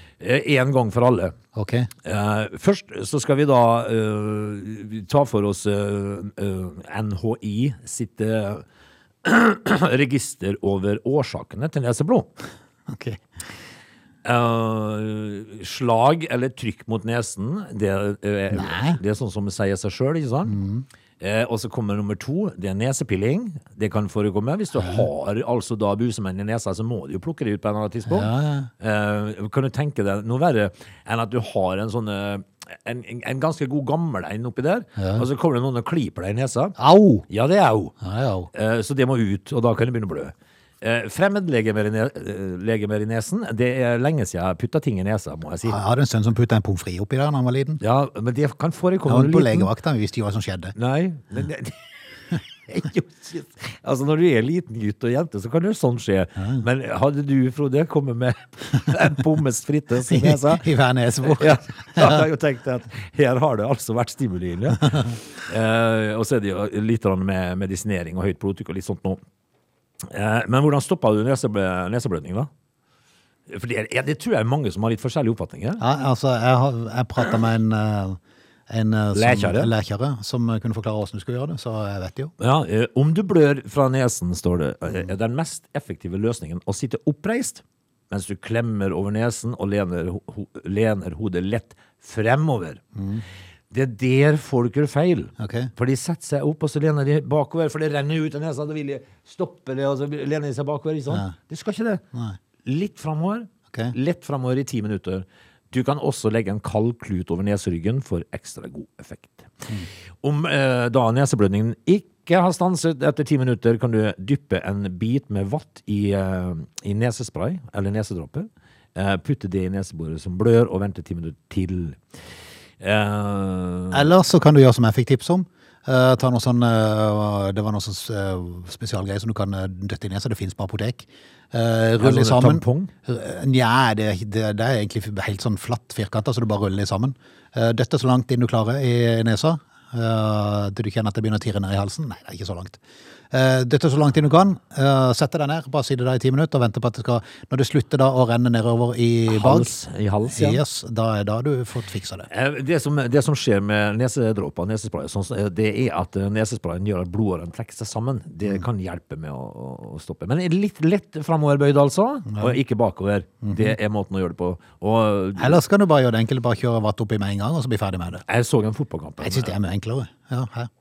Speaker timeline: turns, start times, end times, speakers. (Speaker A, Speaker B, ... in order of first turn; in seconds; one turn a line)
Speaker A: 0.2-1.4
Speaker B: 1.6-1.9
Speaker A: 2.0-8.6
Speaker A: 9.2-12.3
Speaker B: 12.9-13.2
Speaker A: 14.2-20.6
Speaker B: 18.5-19.0
Speaker B: 20.5-20.8
Speaker A: 21.2-36.8
Speaker B: 28.1-28.7
Speaker B: 35.0-35.2
Speaker B: 36.8-37.3
Speaker A: 37.3-37.9
Speaker B: 38.0-38.5
Speaker A: 38.5-45.8
Speaker B: 45.6-47.8
Speaker A: 47.8-49.7
Speaker B: 49.1-50.7
Speaker A: 50.8-51.8
Speaker A: 52.7-60.7
Speaker B: 56.4-56.6
Speaker B: 60.0-62.2
Speaker A: 61.2-69.2
Speaker A: 70.0-72.5
Speaker A: 73.5-75.8
Speaker B: 75.8-82.3
Speaker A: 79.1-79.7
Speaker A: 82.4-92.8
Speaker B: 92.9-93.2
Speaker A: 93.7-102.0
Speaker B: 95.4-95.7
Speaker A: 102.6-109.5
Speaker A: 110.2-122.0
Speaker A: 122.8-124.1
Speaker B: 123.9-142.8
Speaker A: 132.0-132.9
Speaker B: 143.3-149.7
Speaker A: 149.3-150.6
Speaker B: 150.3-152.3
Speaker A: 152.3-165.6
Speaker B: 162.3-162.6
Speaker B: 163.4-163.7
Speaker B: 165.4-168.2
Speaker A: 168.2-169.6
Speaker B: 169.2-170.7